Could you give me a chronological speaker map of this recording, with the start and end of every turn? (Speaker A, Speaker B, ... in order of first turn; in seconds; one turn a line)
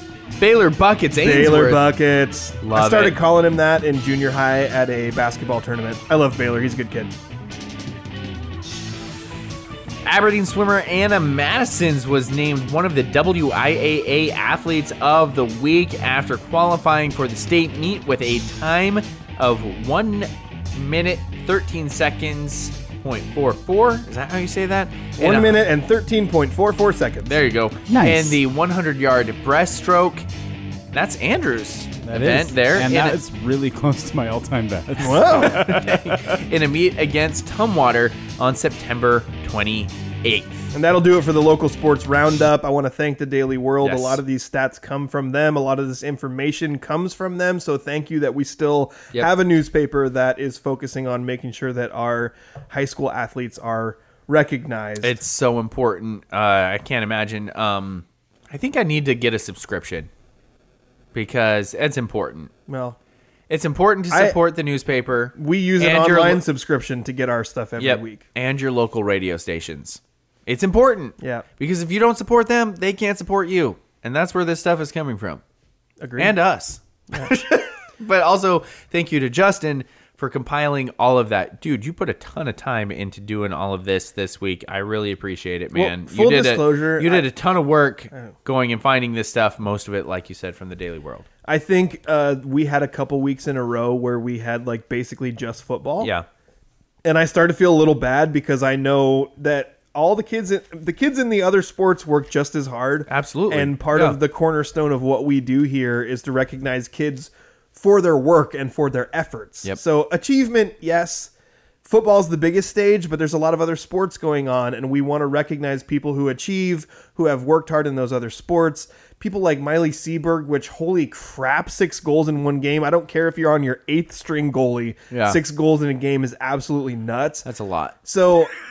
Speaker A: 0.4-1.9
Speaker B: 1.2-7.1
Speaker A: 2.6-3.2
Speaker A: 10.1-25.6
Speaker B: 25.2-27.4
Speaker A: 27.2-30.3
Speaker C: 27.9-28.4
Speaker A: 30.9-33.2
Speaker C: 32.1-36.4
Speaker B: 35.0-35.8
Speaker A: 35.2-40.6
Speaker B: 40.7-55.2
Speaker A: 43.8-44.2
Speaker A: 55.0-60.1
Speaker A: 61.1-62.5
Speaker B: 62.7-63.0
Speaker A: 63.5-66.4
Speaker B: 64.1-64.4
Speaker B: 65.4-68.2
Speaker A: 67.8-75.4
Speaker B: 71.2-71.5
Speaker B: 76.0-76.3
Speaker A: 76.2-91.3
Speaker B: 85.7-87.3
Speaker B: 91.5-96.1
Speaker A: 96.0-96.3
Speaker B: 97.0-111.3
Speaker A: 103.1-104.2
Speaker B: 111.8-127.5
Speaker A: 125.1-125.4
Speaker A: 127.5-128.0
Speaker B: 128.0-128.5